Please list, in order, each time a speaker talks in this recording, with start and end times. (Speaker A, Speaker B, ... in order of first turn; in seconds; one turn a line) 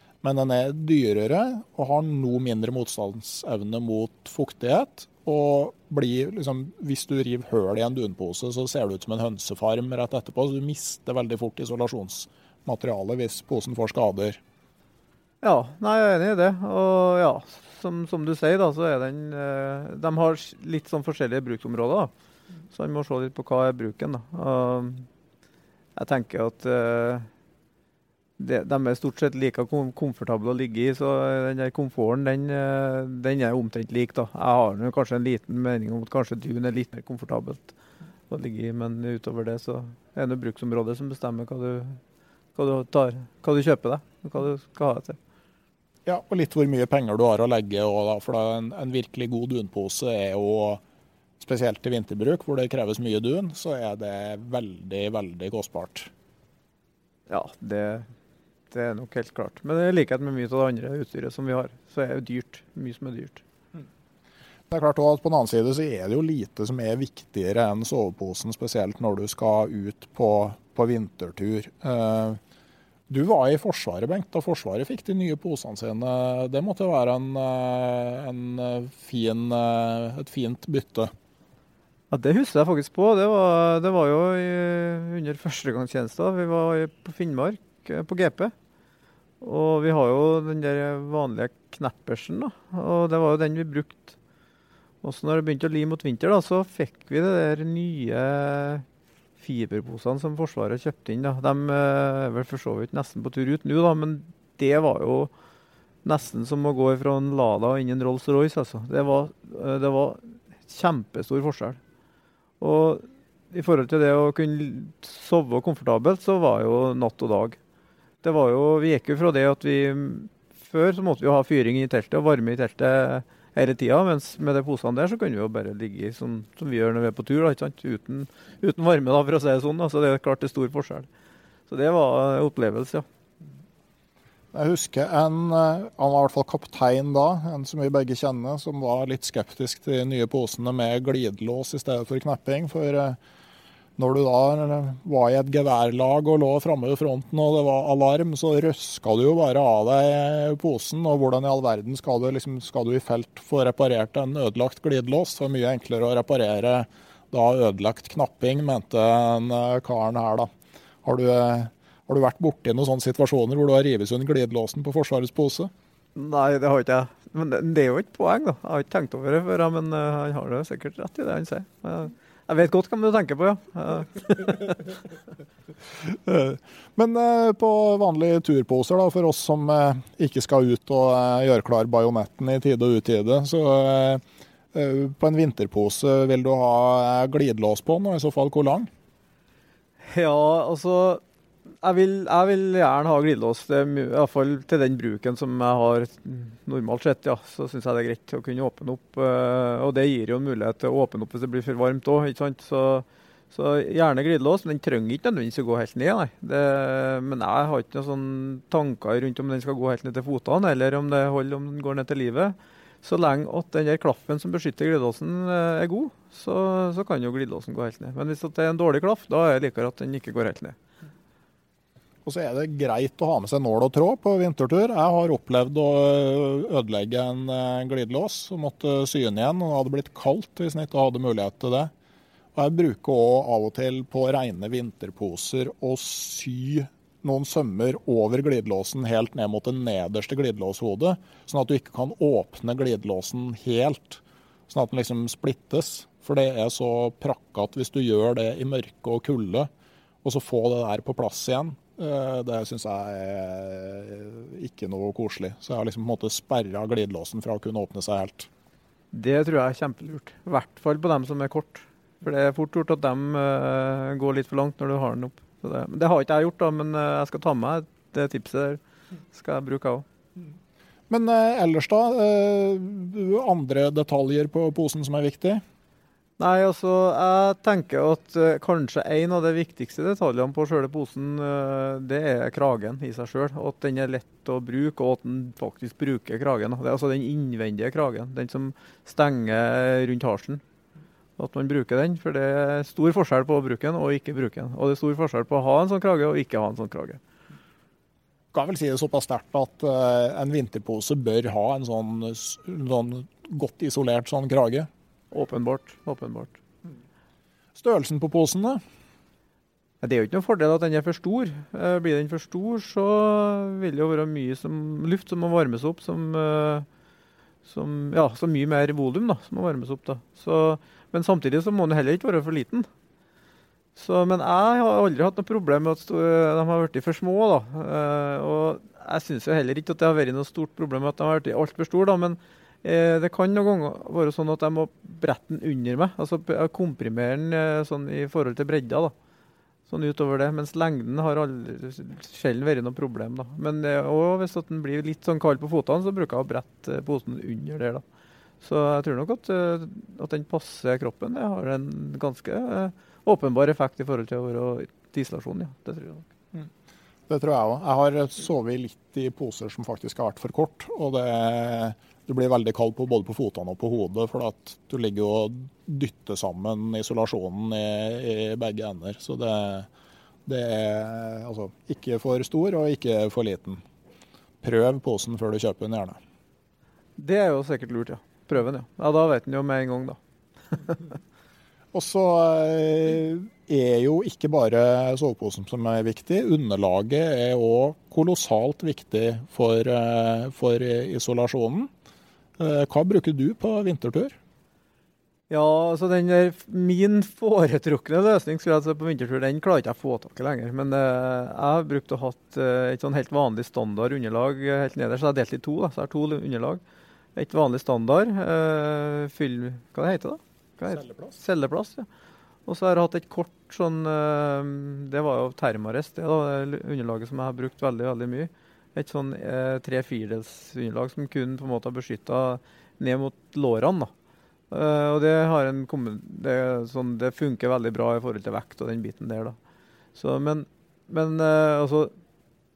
Speaker A: 0.2-14.4
Speaker B: 15.4-22.1
Speaker B: 22.7-25.1
Speaker B: 25.9-27.2
Speaker B: 28.4-37.7
Speaker B: 38.3-42.0
Speaker B: 42.5-45.2
Speaker A: 46.0-50.8
Speaker A: 51.4-56.1
Speaker B: 57.3-58.0
Speaker B: 58.7-63.4
Speaker A: 64.7-72.4
Speaker A: 73.1-81.1
Speaker B: 82.1-88.5
Speaker B: 89.4-94.2
Speaker B: 95.0-98.8
Speaker B: 99.4-105.3
Speaker B: 106.0-111.8
Speaker B: 112.6-117.6
Speaker B: 118.2-131.1
Speaker B: 131.7-133.0
Speaker A: 134.5-143.2
Speaker A: 144.0-160.5
Speaker A: 161.0-165.7
Speaker B: 166.2-174.9
Speaker A: 176.0-184.2
Speaker A: 184.7-188.9
Speaker B: 190.0-191.2
Speaker B: 191.8-220.8
Speaker A: 222.2-231.9
Speaker A: 232.5-249.7
Speaker A: 250.2-258.5
Speaker B: 259.1-268.8
Speaker B: 269.3-270.0
Speaker A: 271.1-275.6
Speaker B: 276.4-290.6
Speaker B: 291.4-297.2
Speaker A: 298.5-304.9
Speaker B: 305.3-306.6
Speaker A: 307.8-308.8
Speaker B: 310.0-316.9
Speaker B: 317.6-322.9
Speaker B: 323.9-339.1
Speaker B: 339.9-348.0
Speaker B: 348.6-356.3
Speaker A: 357.3-369.9
Speaker A: 370.4-373.8
Speaker A: 374.6-376.2
Speaker B: 377.2-380.2
Speaker B: 380.7-381.0
Speaker A: 381.9-391.9
Speaker A: 392.6-394.3
Speaker B: 395.5-406.8
Speaker B: 407.4-412.1
Speaker A: 410.9-411.4
Speaker B: 412.7-424.1
Speaker B: 424.7-429.6
Speaker B: 430.1-432.1